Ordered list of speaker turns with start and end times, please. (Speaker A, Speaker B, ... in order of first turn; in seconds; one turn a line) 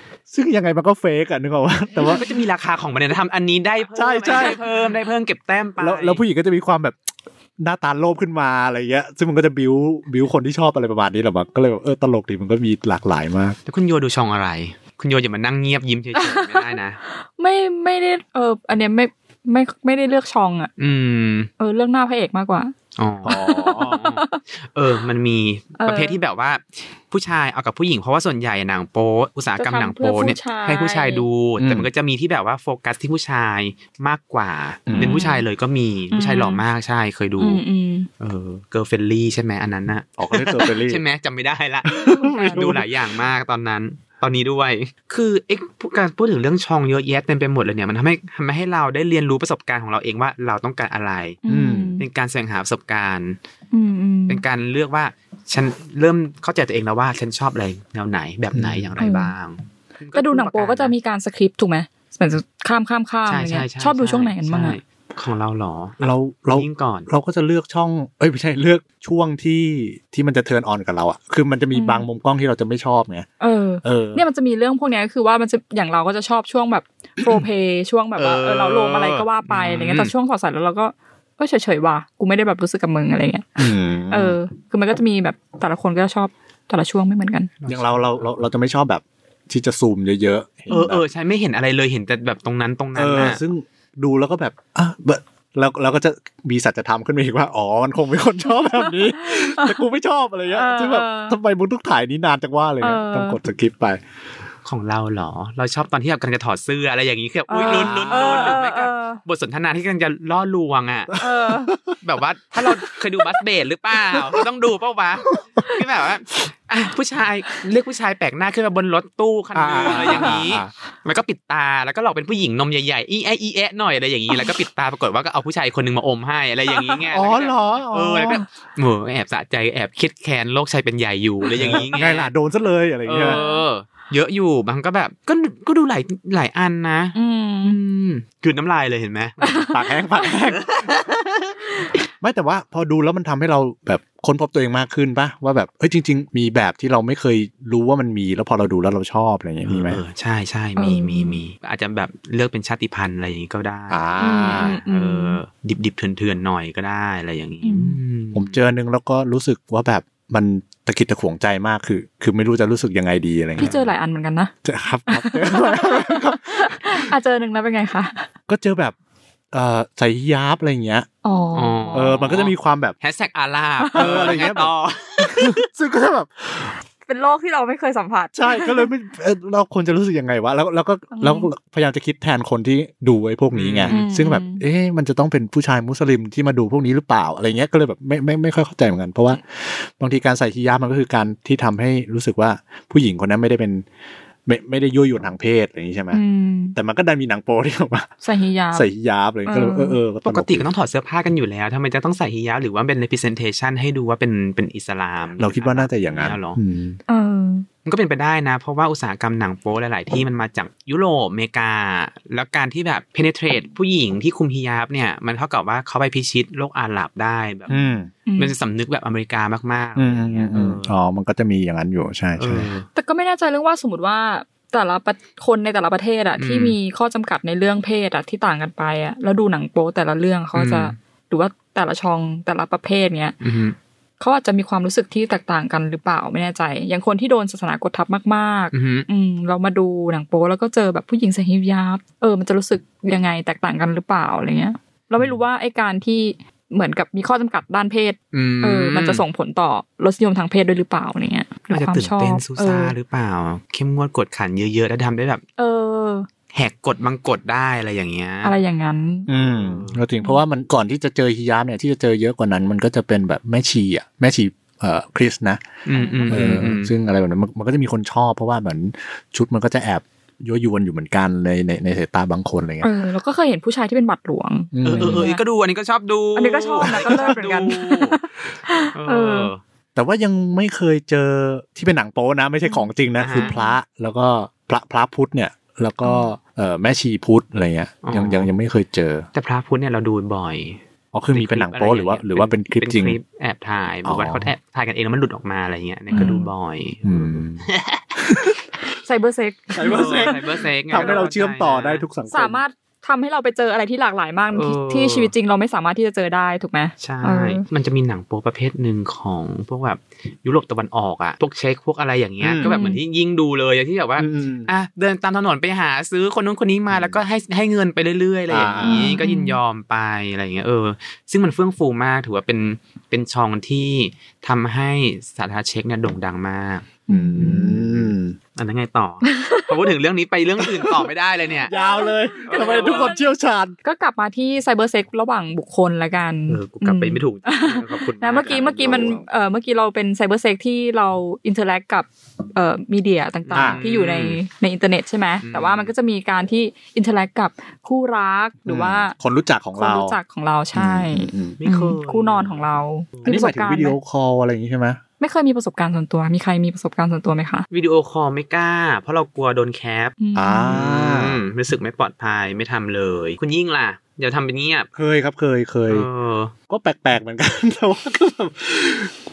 Speaker A: 0.3-2.2
Speaker B: 2.1-6.2
Speaker A: 3.9-4.6
Speaker A: 5.8-7.0
Speaker A: 7.6-13.6
Speaker B: 13.7-17.0
Speaker C: 16.1-20.7
Speaker B: 20.8-21.5
Speaker C: 21.6-22.7
Speaker B: 22.9-37.6
Speaker A: 23.2-23.9
Speaker C: 23.2-24.4
Speaker C: 25.8-26.2
Speaker C: 29.6-31.2
Speaker A: 31.6-31.9
Speaker A: 34.9-35.2
Speaker C: 35.0-35.4
Speaker C: 36.1-36.6
Speaker C: 37.4-38.1
Speaker B: 38.2-51.4
Speaker A: 40.2-41.0
Speaker C: 41.9-42.7
Speaker A: 42.0-42.9
Speaker C: 51.4-52.0
Speaker A: 51.5-52.0
Speaker B: 52.0-53.4
Speaker C: 53.7-54.4
Speaker B: 54.3-60.9
Speaker A: 58.5-59.0
Speaker C: 59.0-59.3
Speaker C: 60.1-64.8
Speaker B: 63.2-67.1
Speaker A: 66.0-73.3
Speaker C: 71.7-72.1
Speaker C: 73.4-87.5
Speaker A: 73.8-74.2
Speaker B: 78.2-80.1
Speaker A: 83.6-84.4
Speaker B: 87.6-88.4
Speaker A: 87.7-91.0
Speaker B: 90.7-93.4
Speaker A: 92.9-104.0
Speaker C: 98.7-99.8
Speaker C: 100.5-101.4
Speaker C: 102.8-103.4
Speaker B: 104.6-111.2
Speaker C: 107.5-109.2
Speaker A: 107.6-108.6
Speaker A: 111.1-112.0
Speaker C: 111.2-111.8
Speaker B: 112.0-132.3
Speaker A: 119.5-120.7
Speaker C: 119.9-120.4
Speaker C: 126.7-127.0
Speaker A: 127.1-128.5
Speaker A: 131.5-133.4
Speaker B: 133.1-139.6
Speaker C: 133.1-133.7
Speaker C: 137.1-137.8
Speaker C: 139.4-139.8
Speaker A: 139.6-140.7
Speaker B: 140.5-141.0
Speaker A: 142.2-150.0
Speaker B: 149.7-158.6
Speaker C: 150.8-151.4
Speaker A: 153.9-154.8
Speaker C: 154.2-155.4
Speaker C: 157.6-158.0
Speaker A: 158.3-163.9
Speaker C: 163.6-164.5
Speaker A: 164.6-167.1
Speaker C: 165.1-168.3
Speaker A: 168.5-168.9
Speaker A: 169.5-171.1
Speaker C: 171.2-172.2
Speaker B: 171.5-175.5
Speaker A: 171.9-173.0
Speaker C: 173.8-174.3
Speaker A: 173.9-176.7
Speaker C: 177.0-178.9
Speaker A: 178.3-193.8
Speaker C: 181.1-181.5
Speaker B: 183.5-184.0
Speaker C: 183.9-184.6
Speaker A: 194.5-196.2
Speaker C: 196.1-196.8
Speaker A: 196.8-198.1
Speaker C: 198.2-198.9
Speaker A: 198.7-200.7
Speaker C: 199.5-200.0
Speaker B: 200.2-206.6
Speaker A: 205.4-207.0
Speaker C: 207.1-207.7
Speaker B: 207.8-217.7
Speaker A: 217.7-218.1
Speaker C: 217.7-218.5
Speaker B: 218.4-220.9
Speaker A: 220.0-222.7
Speaker B: 222.4-222.9
Speaker C: 222.9-233.4
Speaker B: 226.4-226.8
Speaker B: 230.5-230.9
Speaker B: 233.4-233.8
Speaker C: 234.2-253.0
Speaker B: 238.7-239.1
Speaker B: 248.3-249.2
Speaker B: 251.7-255.4
Speaker C: 255.6-256.3
Speaker B: 256.5-258.6
Speaker C: 258.4-259.3
Speaker A: 259.3-265.7
Speaker B: 259.3-260.0
Speaker B: 265.9-266.9
Speaker C: 265.9-266.6
Speaker A: 266.3-272.9
Speaker C: 272.8-275.4
Speaker A: 274.7-275.3
Speaker B: 274.9-278.2
Speaker C: 276.4-279.5
Speaker A: 276.8-277.4
Speaker B: 278.9-279.6
Speaker A: 279.9-289.3
Speaker C: 282.6-283.8
Speaker B: 283.2-283.5
Speaker C: 286.0-286.4
Speaker B: 288.0-288.5
Speaker B: 289.3-290.8
Speaker A: 291.1-293.2
Speaker B: 291.3-298.2
Speaker A: 294.0-294.5
Speaker C: 296.1-296.5
Speaker A: 296.1-296.4
Speaker A: 297.0-297.6
Speaker A: 298.2-298.5
Speaker C: 298.9-301.3
Speaker A: 299.7-302.6
Speaker B: 299.9-302.0
Speaker C: 302.3-307.6
Speaker B: 304.5-305.3
Speaker B: 307.0-331.7
Speaker A: 312.4-312.8
Speaker C: 312.6-313.0
Speaker A: 314.2-314.7
Speaker A: 316.9-317.2
Speaker A: 318.5-319.1
Speaker C: 318.8-319.6
Speaker C: 327.1-327.7
Speaker A: 327.1-328.4
Speaker C: 329.2-329.7
Speaker A: 330.6-331.1
Speaker A: 331.6-333.8
Speaker C: 331.7-333.3
Speaker B: 332.5-333.1
Speaker C: 333.8-349.1
Speaker B: 336.5-339.2
Speaker A: 338.4-339.2
Speaker B: 343.4-344.4
Speaker A: 343.5-343.8
Speaker B: 345.4-345.9
Speaker A: 348.6-350.2
Speaker C: 349.8-354.0
Speaker A: 350.8-351.6
Speaker B: 351.6-353.4
Speaker A: 353.2-355.0
Speaker C: 355.2-357.6
Speaker B: 357.7-364.9
Speaker C: 360.2-360.8
Speaker A: 360.4-361.4
Speaker A: 365.0-366.1
Speaker B: 365.9-366.5
Speaker A: 366.7-369.1